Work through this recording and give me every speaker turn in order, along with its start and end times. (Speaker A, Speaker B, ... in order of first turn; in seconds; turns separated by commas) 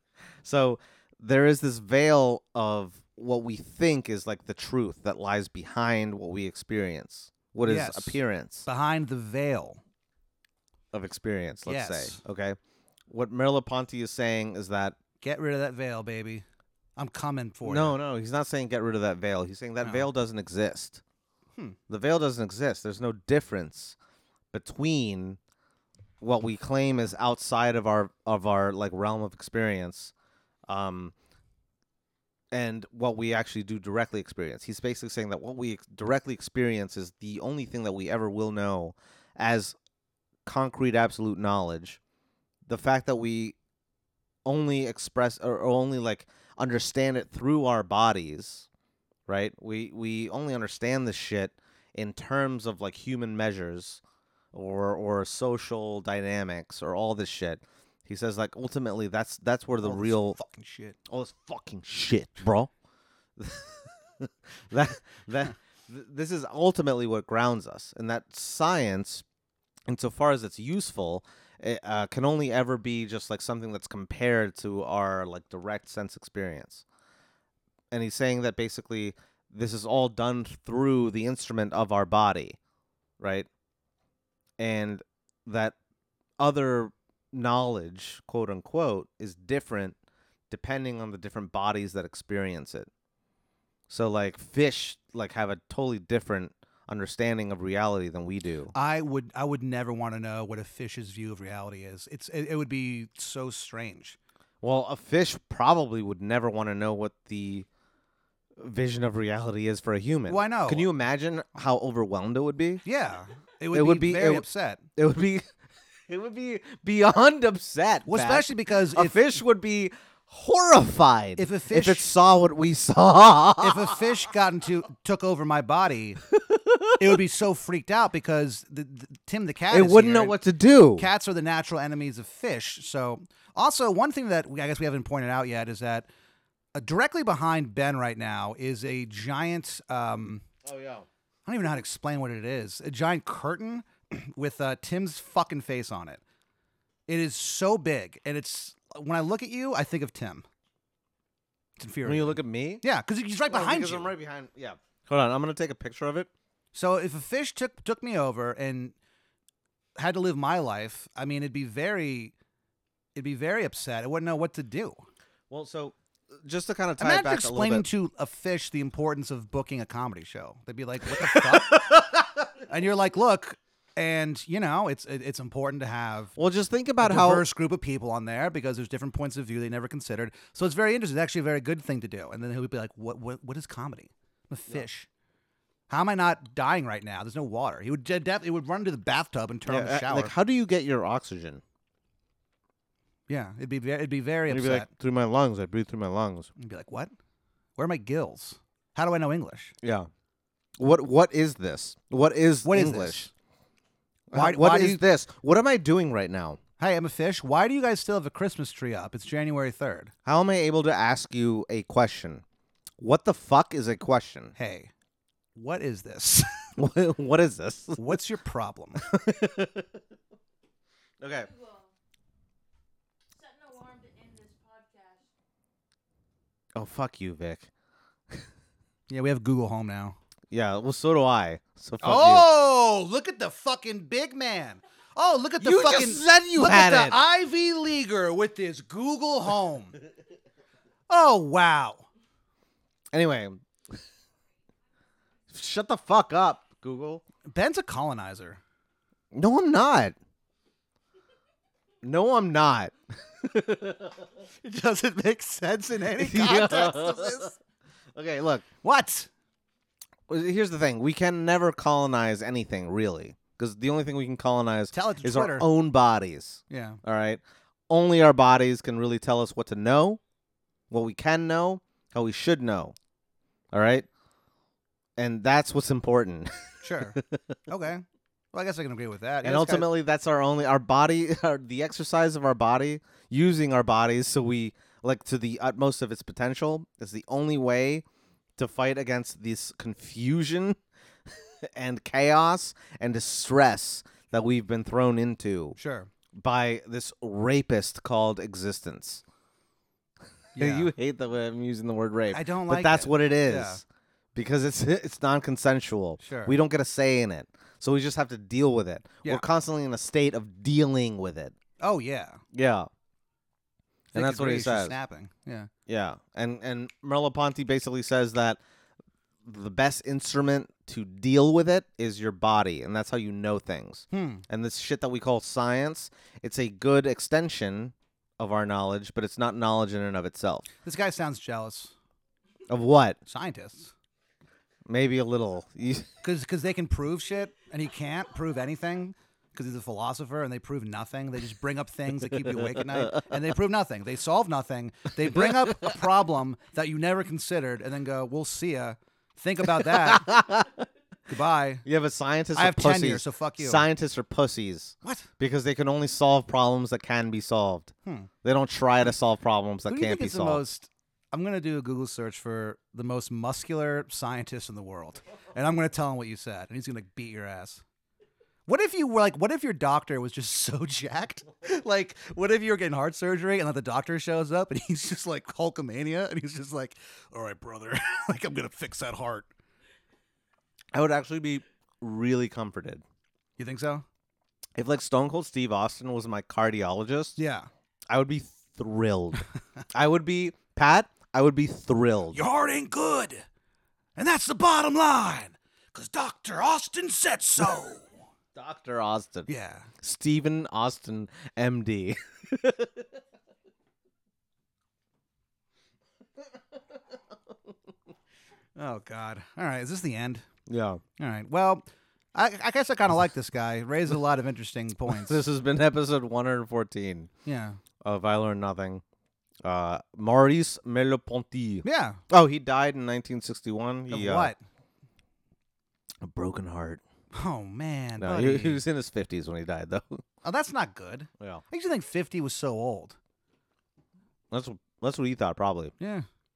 Speaker A: 0.4-8.6, Speaker B: 7.6-9.8, Speaker A: 10.9-12.6, Speaker B: 11.6-12.2, Speaker A: 13.1-15.0, Speaker B: 15.2-16.4, Speaker B: 17.0-17.9, Speaker A: 17.6-21.0, Speaker A: 21.9-23.9, Speaker A: 24.5-25.4, Speaker A: 26.2-30.1, Speaker A: 30.7-31.1, Speaker A: 32.5-39.8, Speaker A: 40.4-42.0, Speaker A: 42.6-43.5, Speaker A: 44.4-48.7, Speaker A: 49.3-54.0, Speaker A: 54.5-60.4, Speaker B: 59.8-61.0, Speaker A: 61.1-62.7, Speaker A: 63.4-69.2, Speaker A: 69.9-76.8, Speaker A: 77.9-82.6, Speaker A: 83.2-83.5, Speaker A: 84.6-85.8, Speaker A: 86.4-90.0, Speaker A: 90.5-92.9, Speaker A: 93.9-98.7, Speaker B: 98.7-104.2, Speaker A: 104.6-107.7, Speaker A: 108.6-112.8, Speaker B: 110.3-110.9, Speaker B: 112.8-114.8, Speaker A: 113.7-115.5, Speaker A: 116.1-124.0, Speaker B: 118.1-119.2, Speaker B: 121.4-122.1, Speaker B: 123.6-126.2, Speaker A: 126.3-127.2, Speaker B: 127.0-130.4, Speaker A: 129.7-131.1, Speaker B: 131.0-136.1, Speaker B: 136.7-140.4, Speaker A: 140.6-141.1, Speaker B: 141.4-146.2, Speaker B: 147.1-150.4, Speaker B: 151.8-154.1, Speaker A: 152.0-152.8, Speaker A: 153.5-156.3, Speaker B: 156.7-158.9, Speaker B: 160.0-162.3, Speaker B: 163.1-165.0, Speaker A: 165.5-167.8, Speaker B: 167.0-172.0, Speaker A: 171.1-172.2, Speaker B: 172.7-176.3, Speaker A: 176.3-177.4, Speaker B: 177.0-185.1, Speaker B: 185.9-190.3, Speaker A: 189.7-191.6, Speaker B: 193.3-194.9, Speaker A: 194.5-196.5, Speaker B: 196.6-197.1, Speaker B: 197.8-199.7, Speaker A: 199.8-200.1, Speaker A: 200.8-203.3, Speaker B: 202.6-203.3, Speaker A: 204.3-206.6, Speaker B: 204.3-205.0, Speaker B: 206.8-210.1, Speaker A: 210.2-212.4, Speaker A: 213.0-214.5, Speaker B: 214.6-214.9, Speaker B: 215.5-216.7, Speaker A: 216.8-218.2, Speaker B: 218.0-219.0, Speaker A: 219.0-219.9, Speaker A: 221.2-221.5, Speaker C: 221.3-221.9, Speaker C: 223.3-225.3, Speaker A: 226.7-227.7, Speaker B: 229.1-230.2, Speaker A: 230.5-232.5, Speaker B: 232.0-239.9, Speaker A: 235.6-237.2, Speaker B: 241.1-242.1, Speaker A: 243.1-243.6, Speaker A: 245.5-247.2, Speaker B: 247.4-248.6, Speaker A: 249.3-250.2, Speaker A: 252.0-254.3, Speaker B: 254.6-257.5, Speaker A: 256.2-257.5, Speaker A: 258.1-258.6, Speaker B: 258.8-259.3, Speaker A: 260.3-270.2, Speaker B: 264.9-265.7, Speaker B: 266.7-267.0, Speaker A: 270.9-272.9, Speaker A: 273.7-274.1, Speaker A: 275.2-277.4, Speaker B: 276.8-279.9, Speaker A: 279.4-288.0, Speaker A: 288.6-290.8, Speaker A: 291.3-295.8, Speaker B: 295.8-296.1, Speaker A: 296.3-299.2, Speaker B: 300.6-300.9, Speaker A: 300.6-303.8, Speaker B: 302.3-303.8, Speaker A: 304.3-311.5, Speaker B: 306.2-306.5, Speaker B: 311.8-312.4, Speaker A: 312.5-312.9, Speaker A: 314.1-314.9, Speaker B: 314.1-315.7, Speaker A: 315.9-318.6, Speaker A: 319.4-330.7, Speaker B: 324.1-324.4, Speaker B: 330.8-331.9, Speaker A: 332.7-333.2, Speaker B: 333.3-333.9, Speaker A: 334.9-336.1, Speaker B: 336.2-350.3, Speaker A: 342.5-343.2, Speaker A: 345.3-345.9, Speaker A: 349.7-350.9, Speaker B: 351.3-351.8, Speaker A: 351.8-360.6, Speaker B: 352.5-353.8, Speaker B: 355.0-355.3, Speaker B: 359.9-367.8, Speaker B: 368.7-379.5, Speaker A: 380.9-383.0, Speaker B: 383.6-384.0, Speaker A: 384.8-387.4, Speaker B: 387.4-387.7, Speaker A: 388.1-392.4, Speaker B: 392.3-393.4, Speaker B: 394.2-398.1, Speaker A: 398.5-399.5, Speaker B: 399.5-399.9, Speaker A: 400.0-403.1, Speaker B: 408.8-410.4, Speaker A: 410.7-411.0, Speaker B: 411.2-415.4, Speaker A: 415.1-417.3, Speaker B: 417.4-417.8, Speaker A: 418.0-419.0, Speaker A: 419.6-424.5, Speaker B: 421.8-422.2, Speaker B: 424.1-424.6, Speaker A: 426.2-427.0, Speaker B: 427.3-428.8, Speaker A: 428.2-430.2, Speaker B: 430.4-433.2, Speaker A: 434.5-435.9, Speaker B: 436.0-436.2